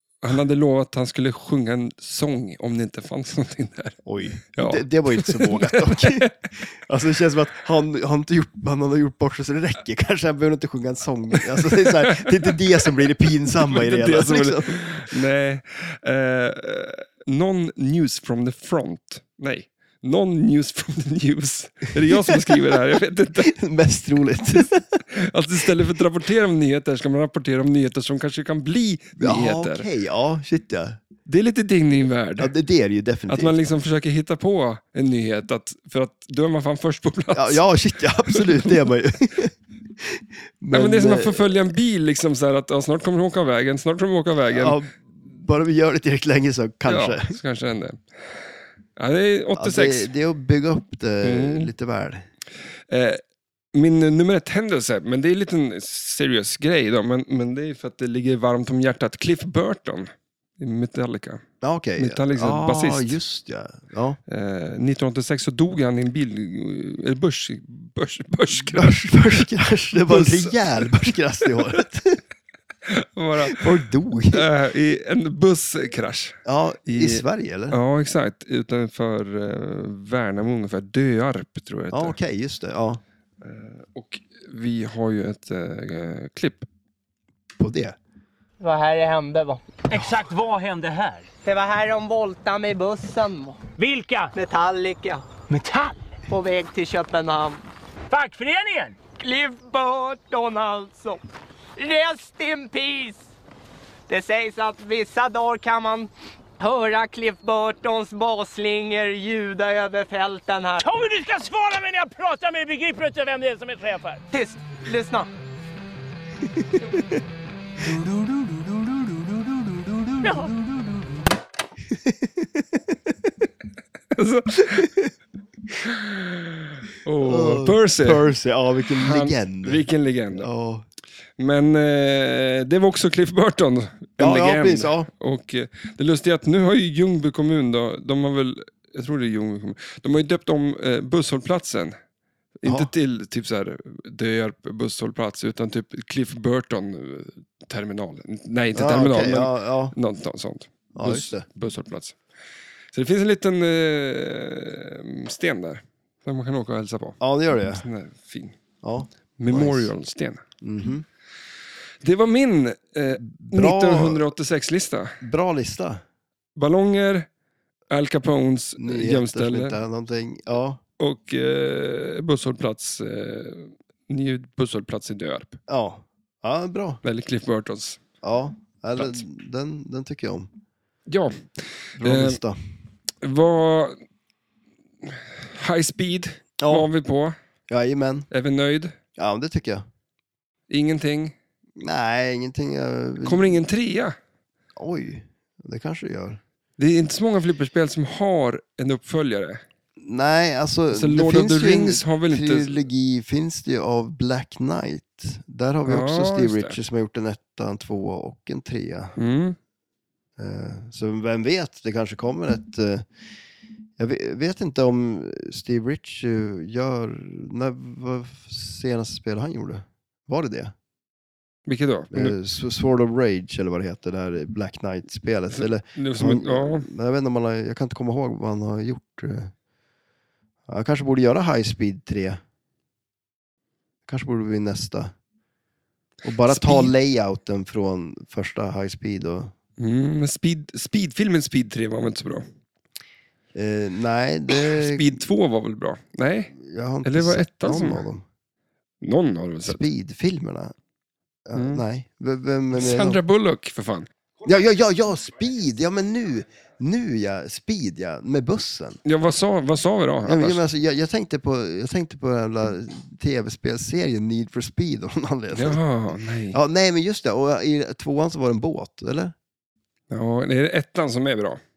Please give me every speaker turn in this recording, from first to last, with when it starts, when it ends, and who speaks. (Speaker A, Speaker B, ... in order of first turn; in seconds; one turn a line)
Speaker A: 0.2-6.3
Speaker B: 4.0-15.1
Speaker A: 11.7-12.6
Speaker A: 13.6-23.5
Speaker B: 22.1-22.5
Speaker B: 23.4-25.0
Speaker A: 25.1-29.9
Speaker B: 29.2-31.0
Speaker A: 31.3-32.5
Speaker B: 32.4-33.6
Speaker A: 33.3-37.6
Speaker B: 37.3-41.6
Speaker A: 38.2-38.8
Speaker A: 40.7-44.8
Speaker B: 44.5-47.4
Speaker A: 46.9-48.0
Speaker A: 49.0-50.1
Speaker B: 49.6-52.3
Speaker A: 51.2-51.7
Speaker A: 52.9-53.2
Speaker A: 53.8-61.4
Speaker B: 61.6-64.2
Speaker A: 62.0-63.2
Speaker A: 64.3-69.5
Speaker B: 68.5-72.2
Speaker A: 70.1-70.9
Speaker A: 72.9-73.7
Speaker B: 73.5-74.5
Speaker A: 74.3-82.2
Speaker B: 76.5-77.8
Speaker B: 81.9-83.0
Speaker A: 83.4-86.7
Speaker B: 87.6-88.0
Speaker C: 88.6-89.7
Speaker D: 89.9-91.3
Speaker C: 91.5-93.6
Speaker D: 93.8-94.4
Speaker C: 94.3-95.3
Speaker D: 95.5-96.0
Speaker C: 96.3-97.6
Speaker D: 98.1-99.1
Speaker C: 99.1-101.2
Speaker C: 101.8-103.3
Speaker C: 104.1-106.1
Speaker C: 106.6-110.8
Speaker D: 110.8-114.2
Speaker C: 114.3-115.3
Speaker B: 116.6-117.2
Speaker B: 117.8-118.2
Speaker B: 119.1-120.2
Speaker B: 121.9-123.1
Speaker A: 124.1-124.9
Speaker B: 124.7-125.1
Speaker A: 125.8-128.3
Speaker B: 127.2-130.8
Speaker A: 128.9-130.5
Speaker A: 131.4-142.0
Speaker B: 134.2-135.1
Speaker A: 142.6-152.2
Speaker B: 142.7-142.9
Speaker B: 148.8-149.9
Speaker B: 150.9-151.5
Speaker A: 152.9-158.6
Speaker B: 157.2-157.8
Speaker B: 158.8-159.9
Speaker A: 159.4-160.4
Speaker B: 160.6-161.1
Speaker A: 162.0-165.2
Speaker B: 163.2-164.3
Speaker B: 165.2-166.0
Speaker A: 166.6-167.3
Speaker A: 167.9-169.8
Speaker B: 168.8-170.8
Speaker A: 171.0-175.6
Speaker B: 175.7-177.0
Speaker A: 177.0-178.0
Speaker B: 178.2-180.5
Speaker A: 179.0-179.2
Speaker A: 181.1-182.4
Speaker B: 182.0-182.6
Speaker A: 183.2-184.0
Speaker A: 185.0-187.4
Speaker B: 186.6-186.9
Speaker B: 187.7-188.3
Speaker A: 188.3-189.0
Speaker B: 189.2-189.9
Speaker A: 190.7-191.3
Speaker B: 191.8-193.6
Speaker A: 193.2-194.2
Speaker B: 194.8-196.4
Speaker A: 196.8-199.6
Speaker B: 200.0-209.2
Speaker A: 200.9-202.9
Speaker A: 205.8-206.8
Speaker A: 209.2-209.6
Speaker B: 210.4-213.1
Speaker B: 214.0-220.7
Speaker A: 221.7-222.4
Speaker B: 222.1-229.5
Speaker A: 225.5-226.9
Speaker B: 230.7-232.4
Speaker B: 234.1-235.1
Speaker B: 236.2-239.5
Speaker A: 236.4-236.9
Speaker A: 239.8-242.5
Speaker B: 243.6-245.3
Speaker A: 244.6-248.1
Speaker B: 246.6-248.2
Speaker A: 249.0-249.8
Speaker B: 249.7-250.7
Speaker B: 251.5-253.2
Speaker A: 251.5-251.8
Speaker A: 252.7-254.1
Speaker B: 254.4-259.0
Speaker A: 259.1-260.6
Speaker B: 260.2-265.8
Speaker A: 265.5-266.6
Speaker B: 266.5-269.3
Speaker A: 270.1-271.6